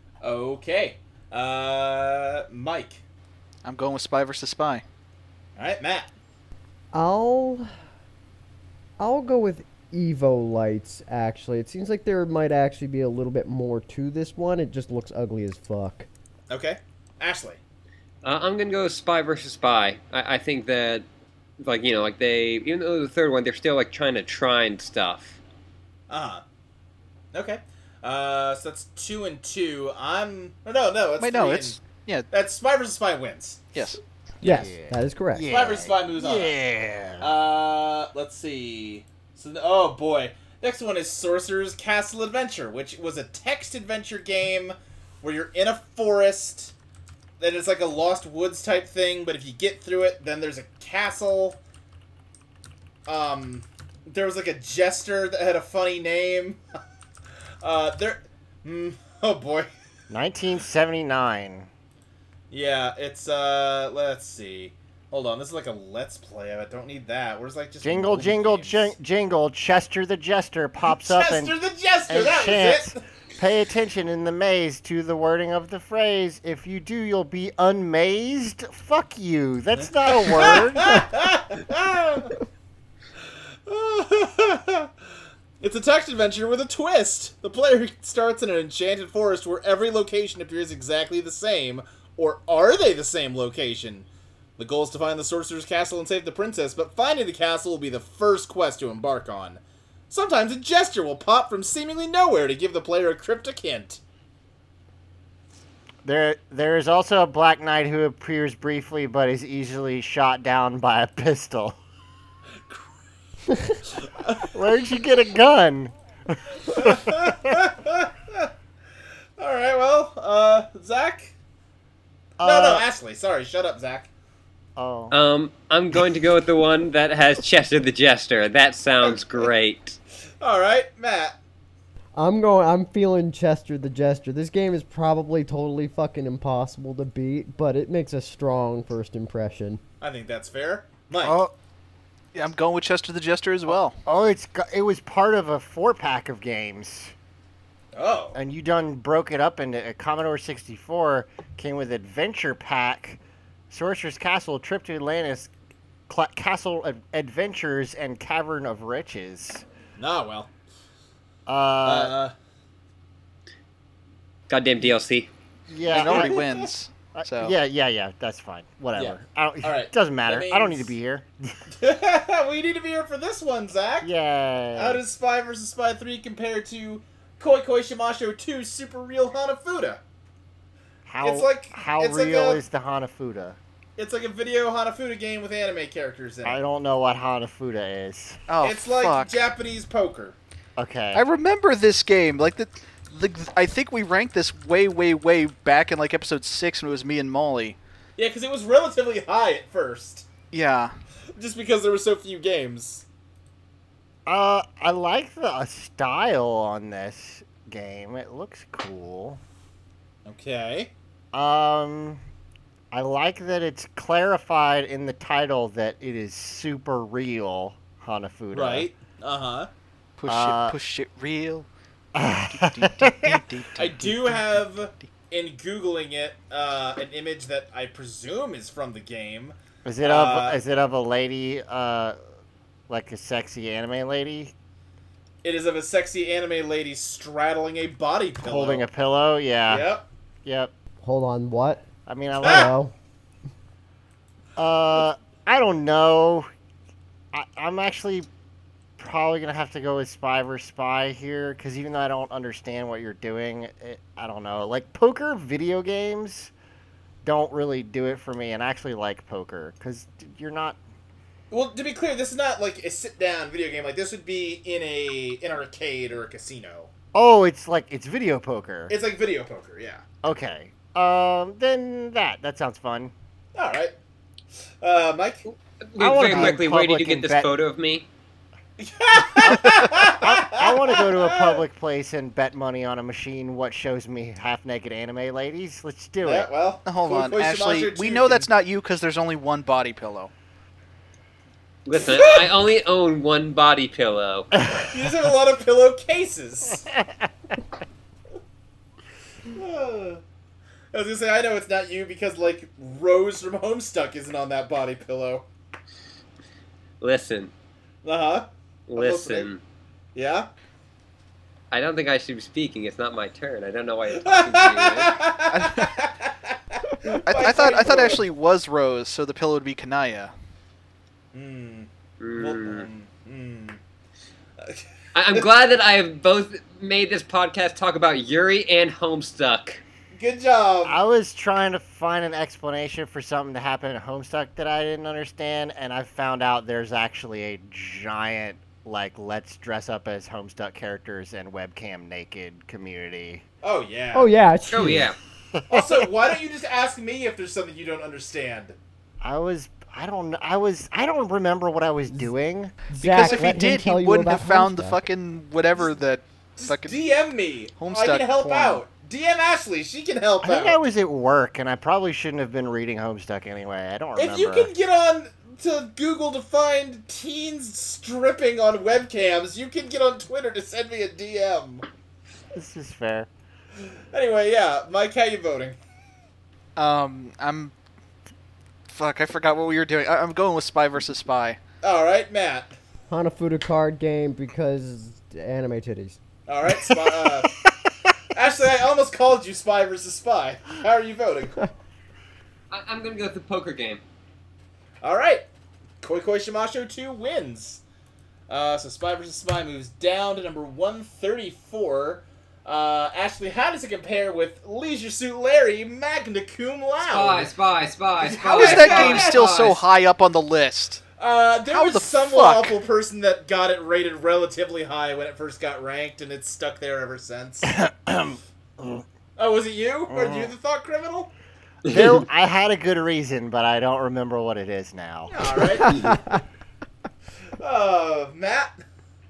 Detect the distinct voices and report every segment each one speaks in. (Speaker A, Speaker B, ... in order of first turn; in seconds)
Speaker A: 0.2-3.0, 5.6-6.1, 16.5-17.6, 26.1-26.4, 27.3-33.9, 35.5-36.5, 37.2-46.7, 47.4-51.6, 53.0-56.6, 57.6-59.7, 62.5-68.9, 71.0-73.0, 80.1-82.3, 83.2-84.9, 85.6-104.0, 114.0-114.5, 116.7-118.5, 119.4-121.3, 122.4-124.1, 129.0-129.5, 130.4-131.3, 140.0-141.4, 147.9-148.4, 160.0-160.5, 161.8-162.3, 165.9-166.7, 168.9-170.9, 171.8-174.1, 174.7-180.0, 181.2-182.6, 184.0-186.6, 188.6-190.4, 198.2-200.2, 201.3-203.0, 210.2-210.9, 218.5-219.7, 223.8-230.6, 235.4-238.8, 239.7-240.1, 242.4-242.7, 261.5-266.9, 268.9-270.0, 273.5-273.9, 274.8-275.4, 278.8-281.6, 286.2-288.5, 292.0-292.5, 294.9-296.9, 299.5-300.2, 300.9-305.4, 308.0-309.5, 310.1-310.5, 314.2-318.2, 321.3-323.8, 324.6-325.5, 330.1-331.0, 343.6-344.3, 345.7-348.8, 356.6-360.8, 364.1-371.8, 374.1-375.8, 381.8-382.7, 386.5-387.5, 388.3-391.7, 395.0-395.4, 396.0-397.8, 398.5-407.5, 408.2-409.8, 411.2-417.7, 419.4-421.3, 425.3-426.1, 427.6-428.7
Speaker B: 3.6-4.8, 31.2-32.3, 33.7-34.0, 142.3-143.9, 165.9-167.5, 188.5-189.3, 191.1-197.8, 200.5-200.9, 220.2-221.7, 222.5-225.1, 286.8-290.3, 315.5-315.9, 317.2-320.3, 353.0-357.0, 357.8-358.8, 376.8-377.7, 378.9-381.6, 408.5-411.0, 411.6-412.8
Speaker C: 6.9-7.7, 9.0-16.1, 34.4-35.5, 132.2-139.8, 241.0-241.8, 242.4-242.9, 344.1-345.1, 352.9-355.0, 383.1-386.2, 425.8-426.4
Speaker D: 18.2-21.0, 21.6-25.4, 125.1-130.0, 164.5-165.3, 275.9-278.1, 291.9-294.5, 307.0-307.5, 308.9-309.6, 311.7-315.2, 322.2-322.9, 325.1-329.8, 344.7-345.2, 392.7-394.0, 407.0-409.8
Speaker E: 34.4-37.3, 60.1-61.7, 67.8-71.5, 72.1-81.1, 106.0-111.8, 114.5-117.5, 122.4-122.8, 124.8-125.1, 141.2-141.5, 144.0-147.1, 148.3-155.5, 156.1-159.6, 161.4-162.1, 165.7-166.4, 167.1-171.3, 174.0-175.0, 181.1-183.6, 186.4-188.4, 190.8-191.2, 204.2-209.4, 211.3-212.2, 212.9-218.9, 220.3-220.8, 222.1-223.4, 229.8-232.2, 232.9-234.5, 238.4-239.9, 240.4-240.7, 242.1-242.7, 244.6-246.5, 247.3-248.3, 249.0-256.5, 257.2-260.8, 267.1-268.9, 270.2-273.1, 276.0-277.5, 279.4-286.5, 330.8-343.4, 345.5-346.3, 349.2-352.8, 360.4-364.7, 372.5-373.3, 386.8-387.7, 417.6-419.0, 420.1-420.5, 421.9-426.0